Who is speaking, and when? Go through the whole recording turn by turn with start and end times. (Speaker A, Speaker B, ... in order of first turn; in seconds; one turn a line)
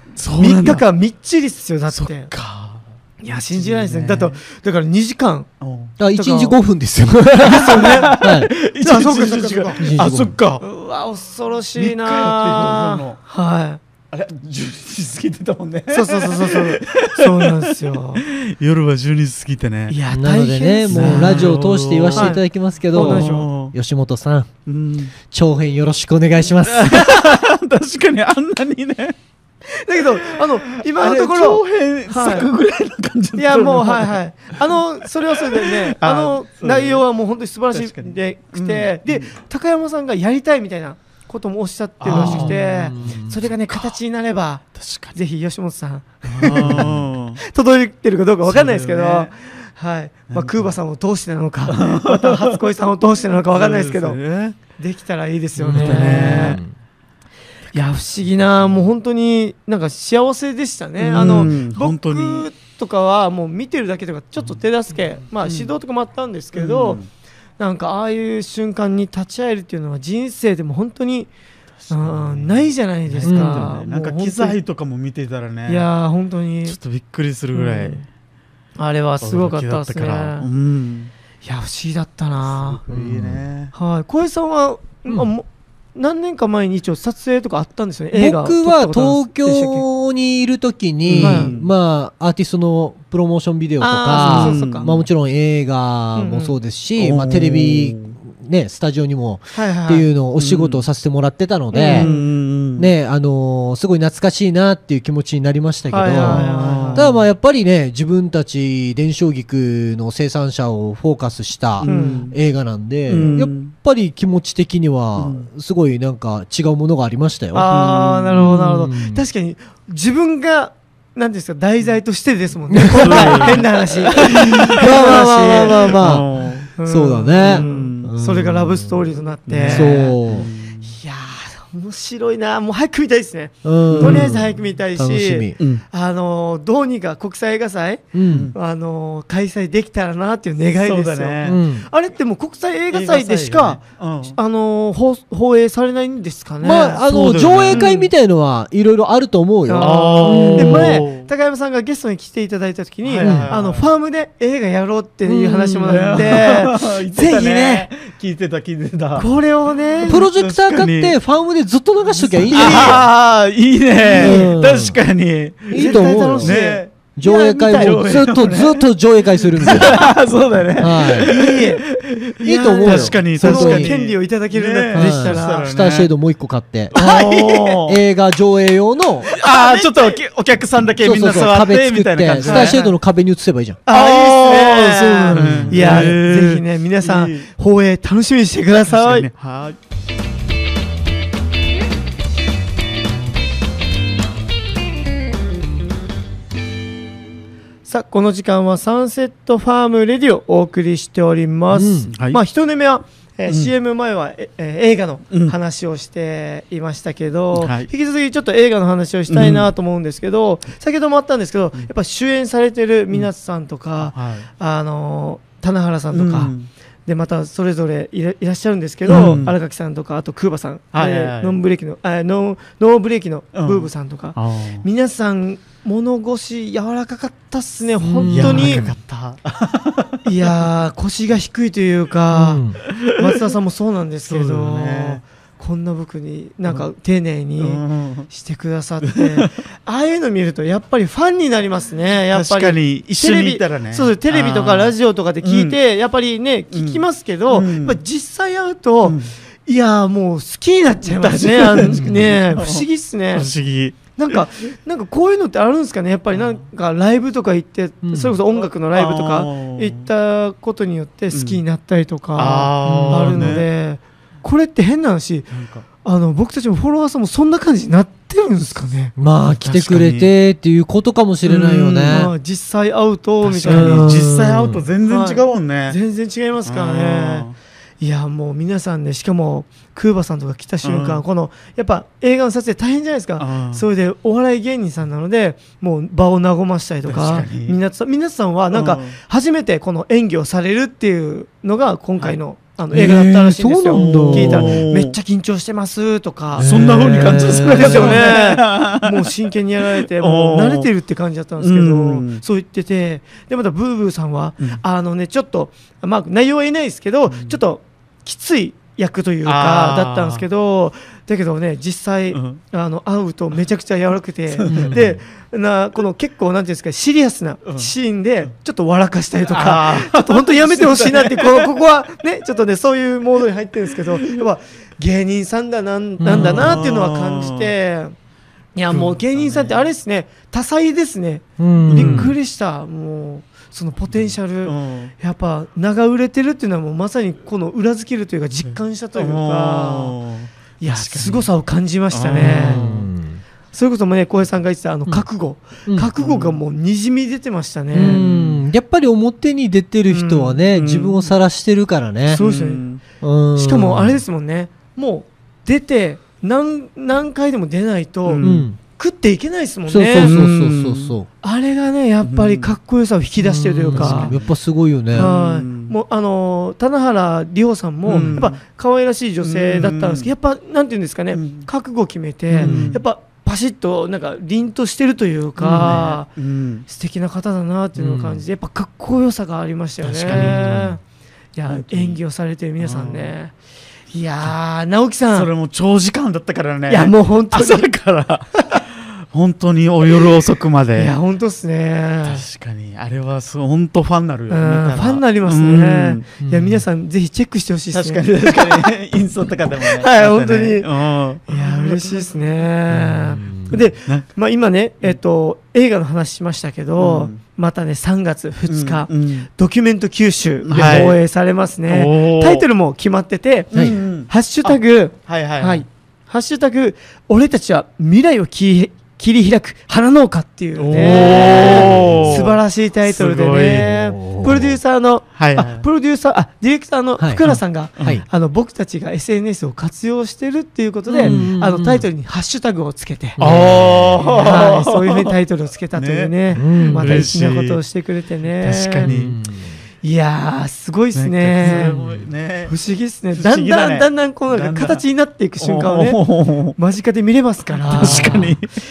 Speaker A: 0.1-0.8
Speaker B: 0.4-2.3
Speaker A: 1.9-2.8
Speaker B: 3.2-5.5
Speaker A: 3.5-4.3
Speaker A: 5.6-6.0
Speaker C: 6.0-8.5
Speaker B: 6.1-6.6
Speaker B: 7.4-8.2
Speaker A: 7.5-10.6
Speaker B: 8.8-9.9
Speaker C: 9.8-10.3
Speaker B: 10.6-13.8
Speaker A: 11.8-13.2
Speaker A: 14.1-20.0
Speaker B: 15.9-18.2
Speaker B: 19.9-21.6
Speaker C: 20.1-24.5
Speaker A: 20.9-22.4
Speaker B: 22.1-22.4
Speaker B: 22.9-23.5
Speaker A: 22.9-23.8
Speaker A: 24.7-25.1
Speaker C: 25.3-27.0
Speaker A: 26.6-29.1
Speaker B: 29.7-32.5
Speaker A: 30.4-34.8
Speaker B: 33.4-54.2
Speaker A: 35.3-37.0
Speaker A: 37.7-39.3
Speaker A: 42.0-43.0
Speaker C: 42.1-43.4
Speaker A: 44.8-45.2
Speaker A: 46.3-47.4
Speaker C: 46.5-47.1
Speaker A: 48.5-49.3
Speaker A: 50.3-50.7
Speaker A: 51.7-52.6
Speaker A: 53.5-54.6
Speaker B: 54.8-56.6
Speaker C: 55.6-56.7
Speaker A: 55.7-56.6
Speaker B: 57.7-67.0
Speaker A: 61.0-62.5
Speaker A: 65.4-65.7
Speaker A: 66.5-67.1
Speaker B: 67.6-71.3
Speaker A: 71.8-75.9
Speaker B: 71.9-74.6
Speaker C: 73.2-73.7
Speaker B: 75.7-76.8
Speaker A: 76.7-78.1
Speaker B: 77.5-78.0
Speaker B: 78.8-80.5
Speaker A: 79.2-81.1
Speaker B: 81.4-82.8
Speaker A: 82.5-83.7
Speaker C: 82.9-83.5
Speaker B: 83.7-89.8
Speaker C: 88.1-102.1
Speaker A: 91.1-91.7
Speaker B: 91.2-91.5
Speaker B: 93.8-94.9
Speaker A: 94.1-95.1
Speaker B: 96.2-96.6
Speaker A: 97.0-98.1
Speaker B: 99.5-100.1
Speaker A: 100.4-100.8
Speaker B: 101.7-102.3
Speaker A: 101.9-102.9
Speaker C: 102.8-117.7
Speaker B: 105.9-107.1
Speaker A: 106.2-107.1
Speaker A: 111.8-112.3
Speaker B: 111.8-112.3
Speaker A: 113.1-113.7
Speaker A: 115.2-115.5
Speaker B: 117.5-126.1
Speaker A: 117.7-118.6
Speaker C: 118.3-119.2
Speaker C: 122.7-123.5
Speaker A: 122.9-126.7
Speaker C: 124.3-126.3
Speaker B: 126.8-130.2
Speaker C: 126.8-129.0
Speaker A: 127.4-128.1
Speaker A: 129.5-130.9
Speaker C: 129.7-130.5
Speaker B: 130.8-147.1
Speaker C: 133.6-135.6
Speaker A: 133.9-134.4
Speaker C: 138.1-138.5
Speaker A: 138.3-138.6
Speaker A: 140.8-141.6
Speaker C: 141.4-141.9
Speaker A: 142.9-144.4
Speaker C: 146.6-151.0
Speaker A: 147.1-147.9
Speaker B: 147.7-148.1
Speaker B: 149.7-157.9
Speaker A: 149.8-151.3
Speaker A: 153.1-153.9
Speaker C: 153.2-153.5
Speaker C: 155.3-156.3
Speaker A: 155.9-159.3
Speaker B: 159.2-160.3
Speaker A: 159.9-161.2
Speaker C: 160.1-163.1
Speaker B: 162.2-163.1
Speaker A: 162.5-168.9
Speaker B: 164.1-164.5
Speaker C: 164.1-165.0
Speaker C: 165.7-170.0
Speaker B: 165.7-168.0
Speaker A: 169.6-176.1
Speaker B: 169.6-170.1
Speaker C: 170.8-171.4
Speaker B: 171.2-171.8
Speaker C: 172.4-173.9
Speaker B: 172.4-175.7
Speaker C: 174.9-177.0
Speaker A: 176.9-178.0
Speaker B: 176.9-177.8
Speaker C: 177.8-179.3
Speaker B: 179.3-180.2
Speaker A: 179.3-182.8
Speaker C: 181.0-183.8
Speaker B: 182.4-182.9
Speaker B: 183.9-189.3
Speaker A: 183.9-187.5
Speaker C: 184.8-186.2
Speaker A: 188.8-189.8
Speaker B: 197.9-216.5
Speaker C: 201.7-202.1
Speaker A: 202.1-202.4
Speaker A: 207.6-207.9
Speaker A: 209.3-209.7
Speaker A: 214.0-214.5
Speaker A: 216.1-216.7
Speaker B: 217.1-228.9
Speaker A: 219.1-219.6
Speaker A: 220.9-221.6
Speaker A: 223.6-224.9
Speaker C: 228.0-228.9
Speaker A: 228.2-230.2
Speaker B: 230.2-253.5
Speaker C: 232.3-232.8
Speaker A: 233.0-233.4
Speaker A: 234.2-235.2
Speaker A: 237.6-238.3
Speaker A: 239.1-239.5
Speaker A: 242.3-245.8
Speaker A: 246.7-248.0
Speaker A: 249.0-249.3
Speaker A: 251.1-254.4
Speaker B: 254.2-265.5
Speaker C: 258.0-258.4
Speaker A: 258.6-260.1
Speaker A: 261.3-261.6
Speaker A: 262.4-263.7
Speaker C: 262.9-263.3
Speaker A: 265.5-265.9
Speaker B: 266.0-269.1
Speaker C: 269.2-272.3
Speaker A: 269.5-270.3
Speaker A: 271.5-272.2
Speaker B: 272.1-274.2
Speaker A: 273.4-276.0
Speaker C: 273.6-274.8
Speaker B: 275.0-277.5
Speaker A: 276.6-277.5
Speaker B: 278.0-328.1
Speaker A: 280.8-281.2
Speaker A: 283.4-283.9
Speaker A: 287.0-287.8
Speaker A: 288.7-289.2
Speaker C: 292.9-294.8
Speaker A: 293.9-295.1
Speaker C: 296.6-298.2
Speaker A: 296.6-299.4
Speaker A: 300.0-300.9
Speaker A: 301.6-302.4
Speaker A: 307.3-307.6
Speaker A: 309.4-310.5
Speaker A: 312.3-312.6
Speaker A: 314.6-315.1
Speaker C: 314.7-315.1
Speaker A: 319.5-321.7
Speaker A: 324.1-324.4
Speaker C: 326.2-326.7
Speaker A: 326.3-327.7
Speaker B: 328.8-340.2
Speaker A: 328.9-329.8
Speaker C: 331.6-332.3
Speaker A: 331.9-332.3
Speaker A: 334.6-335.1
Speaker A: 338.7-341.5
Speaker B: 340.8-343.0
Speaker A: 342.1-343.0
Speaker C: 342.4-343.4
Speaker B: 343.7-348.2
Speaker C: 345.9-346.1
Speaker A: 346.2-346.6
Speaker C: 347.9-352.4
Speaker A: 348.0-348.6
Speaker B: 350.1-350.6
Speaker A: 350.7-351.3
Speaker B: 352.3-352.9
Speaker A: 352.3-353.0
Speaker C: 353.2-354.2
Speaker B: 353.6-360.4
Speaker A: 358.3-358.6
Speaker C: 358.4-358.8
Speaker C: 359.9-361.3
Speaker A: 360.1-361.1
Speaker B: 361.4-364.4
Speaker A: 362.2-362.8
Speaker C: 363.4-365.3
Speaker A: 363.9-364.5
Speaker A: 365.1-366.0
Speaker B: 365.1-376.3
Speaker A: 368.1-368.6
Speaker A: 369.4-370.3
Speaker A: 371.3-371.7
Speaker C: 372.5-372.9
Speaker A: 372.6-373.0
Speaker A: 375.6-376.9
Speaker B: 376.9-381.0
Speaker C: 378.0-378.4
Speaker A: 380.0-380.9
Speaker C: 380.3-381.0
Speaker B: 381.6-383.5
Speaker A: 381.7-382.2
Speaker A: 382.8-383.4
Speaker B: 384.1-385.5
Speaker A: 385.3-391.1
Speaker B: 386.9-387.9
Speaker B: 390.9-392.4
Speaker A: 392.2-396.2
Speaker B: 394.5-398.9
Speaker C: 396.4-396.8
Speaker A: 397.9-402.3
Speaker B: 399.8-400.9
Speaker B: 401.5-439.1
Speaker C: 402.9-403.8
Speaker A: 407.0-407.4
Speaker A: 408.7-409.5
Speaker A: 410.6-411.2
Speaker A: 411.9-412.7
Speaker C: 413.7-414.0
Speaker A: 413.7-415.9
Speaker A: 420.8-423.9
Speaker C: 421.9-422.2
Speaker C: 423.8-424.8
Speaker A: 425.4-425.9
Speaker C: 427.2-427.4
Speaker A: 427.4-428.2
Speaker C: 431.1-432.1
Speaker A: 431.2-431.5
Speaker C: 433.4-434.3
Speaker A: 433.4-435.4
Speaker A: 435.9-436.4
Speaker C: 436.6-437.3
Speaker A: 437.0-437.8
Speaker A: 438.6-439.3
Speaker C: 439.0-439.8
Speaker B: 440.0-442.1
Speaker A: 441.1-442.7
Speaker B: 442.7-446.2
Speaker A: 443.4-445.0
Speaker A: 445.6-446.8
Speaker B: 446.8-448.6
Speaker A: 447.8-448.7